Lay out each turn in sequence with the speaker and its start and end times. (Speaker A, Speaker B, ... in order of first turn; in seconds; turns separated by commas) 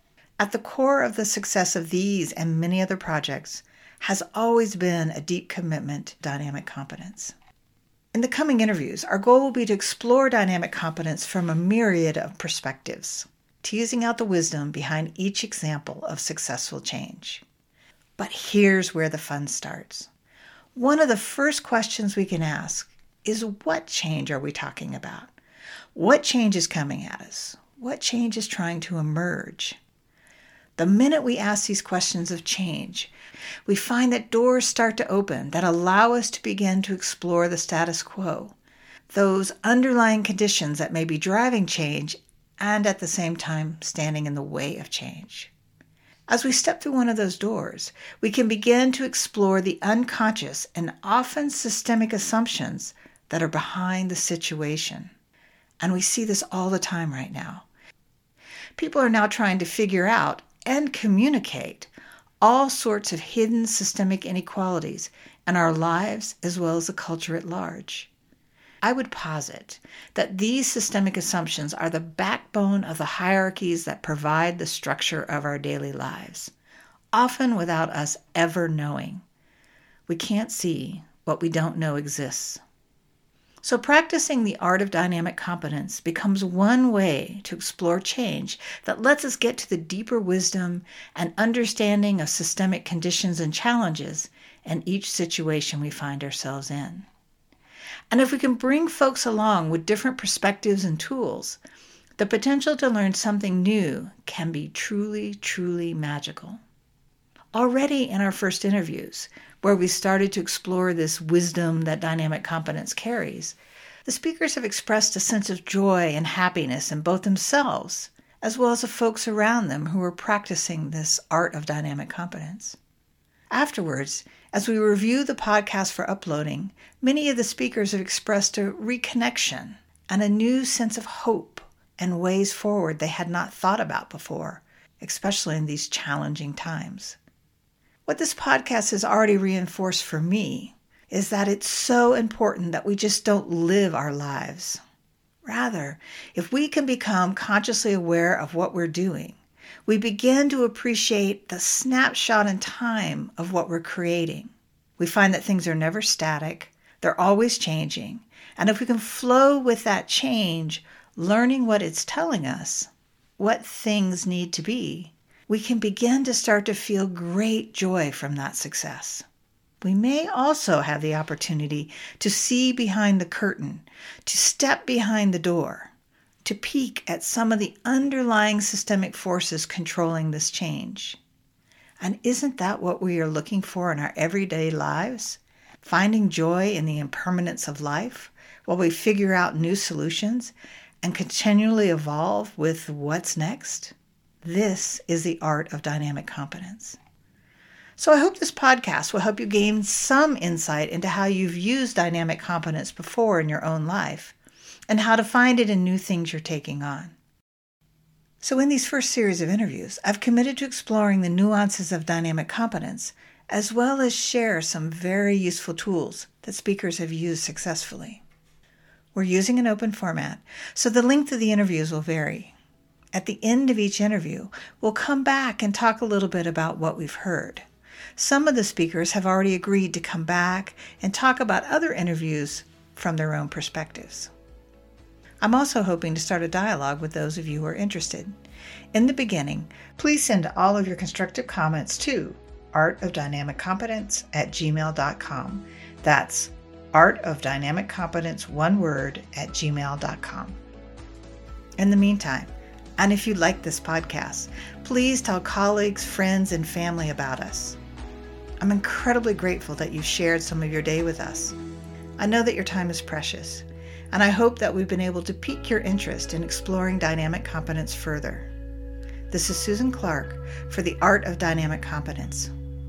Speaker A: 0.4-7.3, Speaker A: 8.1-17.4, Speaker A: 18.2-20.1, Speaker A: 20.8-25.4, Speaker A: 25.9-29.8, Speaker A: 30.8-33.1, Speaker A: 33.7-38.6, Speaker A: 39.1-45.5, Speaker A: 46.3-55.1, Speaker A: 55.8-57.7, Speaker A: 58.8-68.1, Speaker A: 68.8-76.5, Speaker A: 77.1-79.2, Speaker A: 80.1-82.6, Speaker A: 83.6-97.1, Speaker A: 98.1-101.6, Speaker A: 102.2-106.6, Speaker A: 107.5-122.8, Speaker A: 123.5-137.2, Speaker A: 138.1-144.8, Speaker A: 145.4-169.2, Speaker A: 169.8-175.9, Speaker A: 176.4-181.2, Speaker A: 182.0-197.0, Speaker A: 198.0-204.3, Speaker A: 204.9-207.2, Speaker A: 208.4-218.2, Speaker A: 219.1-222.5, Speaker A: 223.1-227.7, Speaker A: 228.2-234.3, Speaker A: 235.4-238.3, Speaker A: 238.9-250.6, Speaker A: 251.8-257.8, Speaker A: 258.6-261.6, Speaker A: 262.2-268.5, Speaker A: 269.3-272.5